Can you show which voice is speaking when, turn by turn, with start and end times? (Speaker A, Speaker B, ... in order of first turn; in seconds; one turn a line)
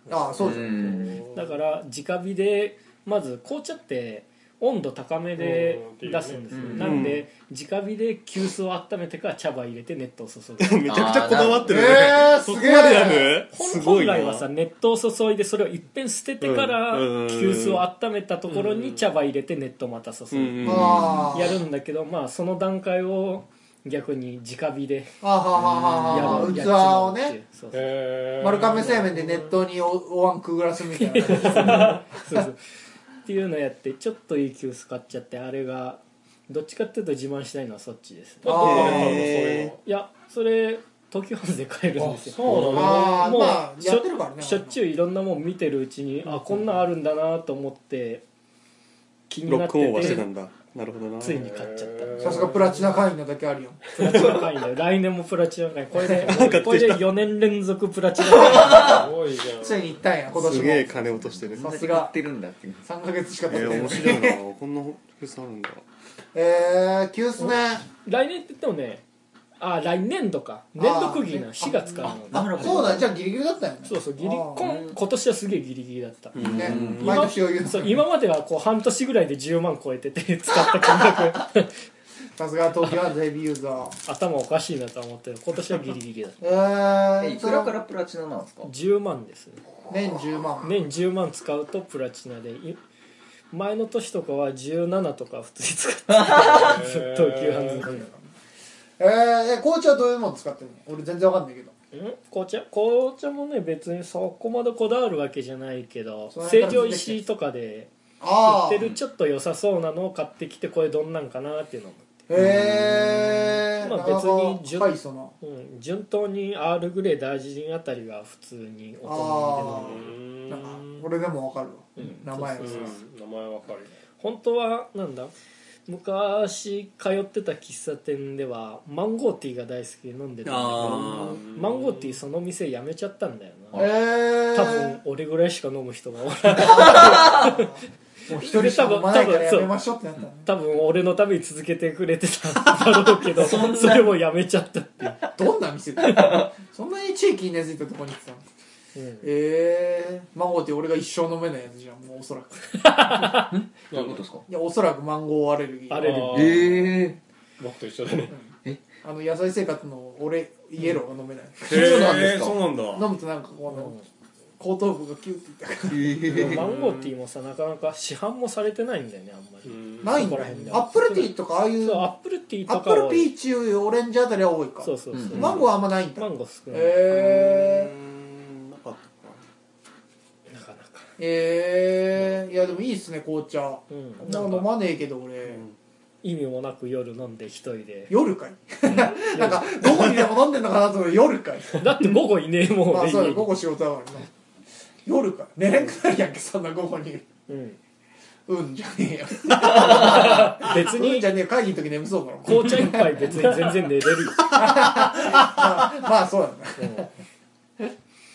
Speaker A: 0.1-0.9
Speaker B: 0.1-1.5
Speaker C: 0.4-1.2
Speaker D: 1.1-11.4
Speaker B: 5.4-6.9
Speaker C: 6.5-7.0
Speaker E: 6.7-7.2
Speaker E: 10.6-14.5
Speaker C: 10.9-11.9
Speaker A: 11.6-13.4
Speaker D: 13.5-25.2
Speaker E: 16.4-17.8
Speaker B: 18.5-19.0
Speaker E: 20.3-21.3
Speaker A: 20.6-21.6
Speaker C: 20.9-21.3
Speaker A: 25.2-27.4
Speaker E: 25.6-26.4
Speaker D: 26.1-27.9
Speaker B: 27.7-29.4
Speaker A: 28.4-32.4
Speaker D: 30.9-32.6
Speaker B: 31.3-32.0
Speaker D: 33.2-48.2
Speaker B: 38.4-39.8
Speaker A: 38.4-39.3
Speaker E: 38.5-39.7
Speaker B: 42.1-43.3
Speaker A: 42.5-44.8
Speaker D: 49.3-50.3
Speaker E: 49.5-51.5
Speaker D: 51.2-52.6
Speaker B: 51.4-52.9
Speaker A: 52.2-53.8
Speaker D: 54.0-59.0
Speaker E: 56.1-57.1
Speaker B: 58.5-60.0
Speaker C: 58.6-59.0
Speaker A: 59.6-62.1
Speaker E: 60.3-61.8
Speaker C: 61.3-62.8
Speaker A: 62.8-64.4
Speaker E: 63.5-65.8
Speaker A: 66.3-67.9
Speaker D: 67.4-69.0
Speaker D: 69.6-73.0
Speaker A: 70.8-74.6
Speaker C: 72.0-73.1
Speaker D: 73.8-81.7
Speaker C: 74.6-75.0
Speaker E: 76.3-77.2
Speaker C: 76.4-77.1
Speaker A: 76.5-78.0
Speaker A: 82.4-84.0
Speaker D: 84.0-86.4
Speaker A: 86.4-87.7
Speaker C: 87.2-88.7
Speaker D: 88.6-89.6
Speaker A: 89.9-90.7
Speaker D: 90.6-92.8
Speaker D: 93.5-98.1
Speaker C: 96.1-96.5
Speaker B: 96.3-97.8
Speaker A: 97.8-98.2
Speaker A: 99.0-101.7
Speaker D: 101.9-112.2
Speaker A: 106.3-107.2
Speaker A: 108.2-108.9
Speaker A: 112.3-115.3
Speaker C: 112.4-113.6
Speaker D: 113.8-120.1
Speaker A: 119.0-123.0
Speaker B: 119.8-121.0
Speaker D: 122.0-123.0
Speaker B: 122.6-123.9
Speaker D: 124.2-125.3
Speaker D: 125.9-137.7
Speaker E: 130.4-131.4
Speaker C: 130.7-131.2
Speaker B: 131.5-132.2
Speaker A: 133.7-135.0
Speaker A: 136.6-137.8
Speaker C: 137.0-137.5
Speaker A: 138.3-140.5
Speaker D: 138.3-139.7
Speaker D: 140.4-145.3
Speaker C: 143.3-144.2
Speaker A: 145.4-148.4
Speaker C: 146.0-146.5
Speaker D: 148.9-149.2
Speaker A: 149.2-152.8
Speaker D: 152.8-153.5
Speaker C: 153.2-154.4
Speaker B: 153.9-154.2
Speaker A: 154.5-156.5
Speaker D: 155.9-156.6
Speaker B: 156.0-156.9
Speaker C: 156.3-157.2
Speaker B: 157.6-158.3
Speaker A: 159.0-163.9
Speaker C: 161.7-162.6
Speaker E: 161.7-163.1
Speaker D: 163.7-164.0
Speaker A: 164.6-166.2
Speaker C: 165.9-166.6
Speaker D: 166.3-173.3
Speaker B: 166.4-167.1
Speaker B: 169.6-170.3
Speaker A: 170.0-172.1
Speaker A: 172.7-177.9
Speaker D: 174.8-177.1
Speaker C: 175.1-175.6
Speaker E: 177.1-179.4
Speaker D: 180.5-181.1
Speaker A: 181.2-185.6
Speaker D: 183.9-184.7
Speaker D: 186.2-188.1
Speaker A: 188.1-192.1
Speaker D: 189.2-189.8
Speaker D: 191.8-193.5
Speaker A: 192.9-194.3
Speaker A: 195.0-197.3
Speaker D: 197.5-197.8
Speaker A: 198.5-203.5
Speaker D: 199.6-201.3
Speaker D: 202.4-204.8
Speaker A: 204.4-207.1
Speaker D: 206.8-207.1